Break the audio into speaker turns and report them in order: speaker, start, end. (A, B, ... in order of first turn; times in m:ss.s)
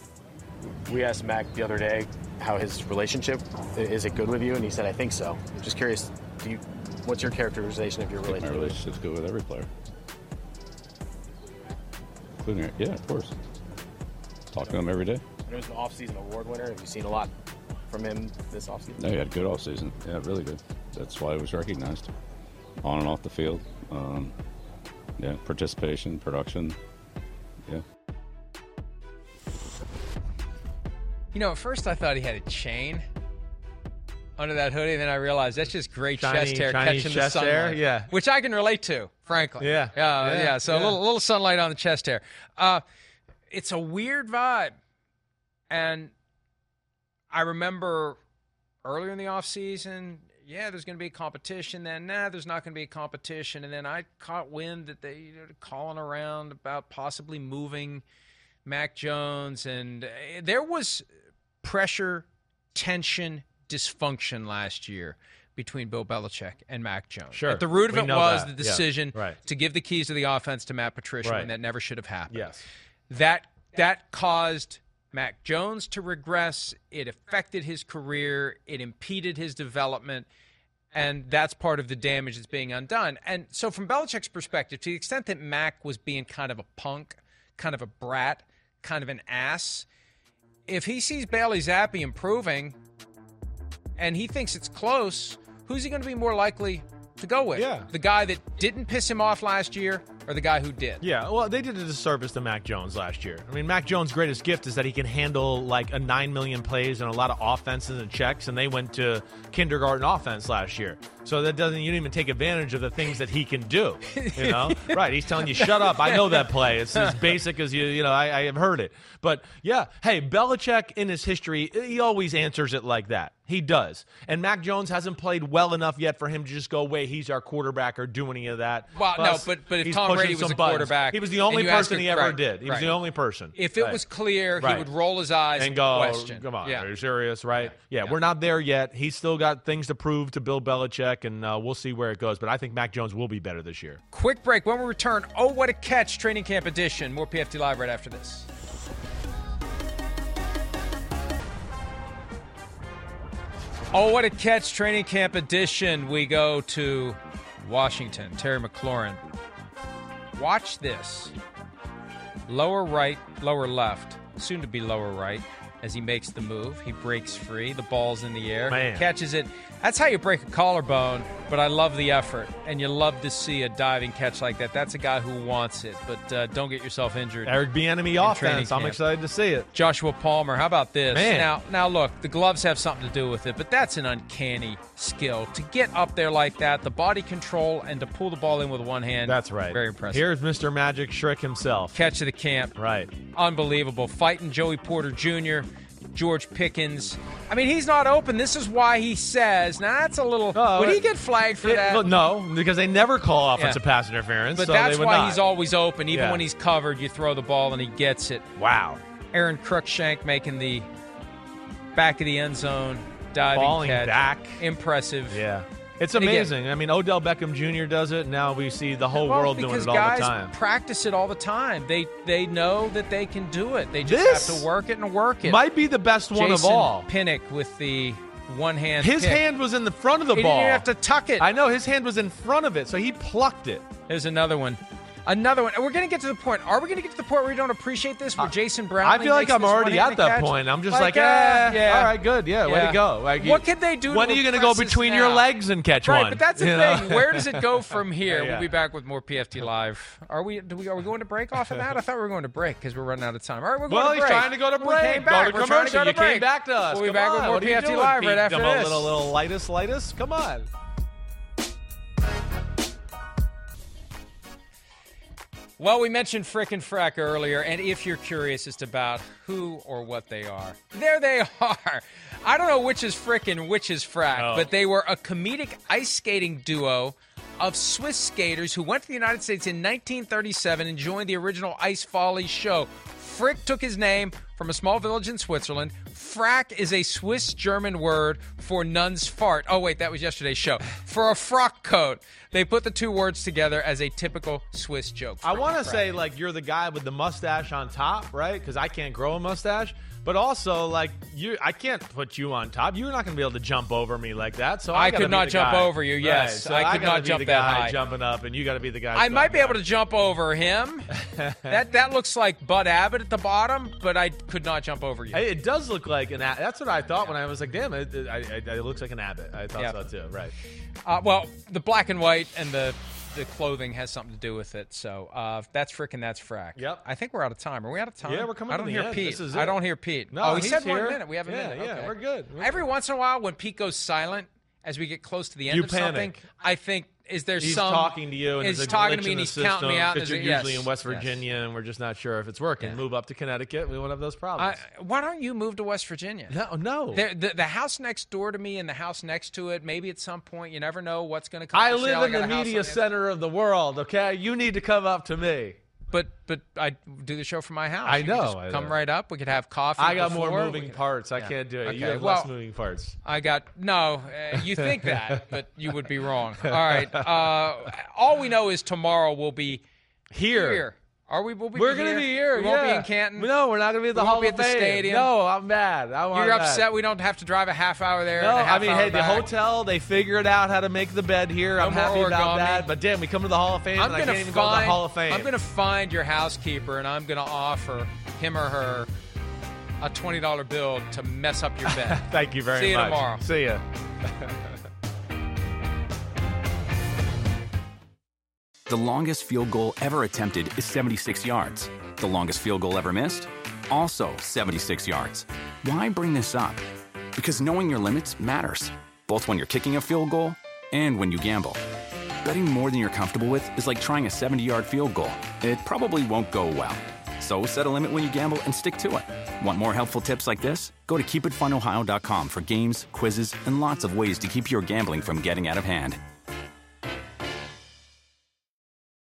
0:00.8-0:08.9 A
0:08.2-0:09.7 B
0:12.4-0:13.4 B
0:14.5-0:15.2 B
0:15.4-0:17.3 A
0:17.9-0:19.0 A
0:19.0-0:22.1 B
0:22.8-0:24.3 B
0:25.2-0:26.8 B
0:31.3-0:33.0 C
0:34.4-0:42.8 C
0:36.2-0:38.1 D
0:39.6-0:41.0 D
0:43.5-0:44.8 C
0:45.7-0:46.1 C
0:47.3-0:48.2 C
0:48.8-0:58.0 C
0:58.6-1:01.0 C
1:01.6-1:12.5 C
1:07.3-1:09.4 D
1:11.2-1:11.5 D
1:12.3-1:12.6 D
1:13.1-1:20.3 C
1:20.9-1:29.9 C
1:30.7-1:32.8 C
1:34.0-1:41.0 C
1:37.5-1:37.9 D
1:41.0-2:14.0 D
1:54.1-1:57.2 C
2:08.9-2:13.0 C
2:13.6-2:16.9 C
2:14.6-2:14.9 D
2:15.6-2:24.0 D
2:17.6-2:18.2 C
2:24.1-2:28.5 C
2:33.9-2:39.2 C
2:40.3-2:41.3 C
2:42.5-2:57.6 C
2:48.7-2:49.1 D
2:57.4-2:59.7 D
2:58.2-2:59.0 C
2:59.7-3:10.3 C
3:01.1-3:01.5 D
3:09.2-3:11.9 D
3:11.9-3:22.1 C
3:12.8-3:13.1 D
3:20.5-3:21.1 D
3:21.6-3:25.4 D
3:24.5-3:28.5 C
3:26.1-3:26.4 D
3:28.6-3:29.0 D
3:29.3-3:30.9 C
3:31.9-3:35.4 C
3:33.5-3:34.6 D
3:35.3-3:40.5 D
3:36.2-3:36.5 C
3:39.1-3:45.6 C
3:44.0-3:44.6 D
3:45.4-3:47.1 D
3:46.3-3:49.4 C
3:49.0-3:50.9 D
3:50.3-3:51.5 C
3:51.4-3:53.9 D
3:54.1-4:05.5 C
3:58.4-4:08.7 D
4:06.0-4:19.1 C
4:13.9-4:20.7 D
4:25.8-4:56.2 C
4:34.3-4:34.7 D
4:55.4-5:09.8 D
5:04.9-5:08.0 C
5:09.1-5:11.1 C
5:11.1-5:11.8 D
5:11.6-5:15.4 C
5:15.3-5:20.5 D
5:21.0-5:41.4 C
5:26.8-5:27.0 D
5:28.2-5:32.8 D
5:35.7-5:36.4 D
5:37.6-5:44.8 D
5:44.6-5:46.6 C
5:46.5-5:47.2 D
5:47.1-5:53.1 C
5:51.7-5:55.8 D
5:56.1-6:02.5 C
5:58.0-5:59.0 D
6:00.0-6:03.2 D
6:03.2-6:09.8 C
6:04.5-6:05.4 D
6:06.6-6:07.5 D
6:10.3-6:10.8 D
6:10.4-6:13.5 C
6:11.7-6:16.9 D
6:14.1-6:15.3 C
6:16.3-6:19.5 C
6:18.4-6:25.5 D
6:21.8-6:22.9 C
6:24.0-6:29.1 C
6:30.0-6:33.4 C
6:31.8-6:34.7 D
6:38.9-6:46.8 E
6:47.4-6:51.8 E
6:52.4-7:06.2 E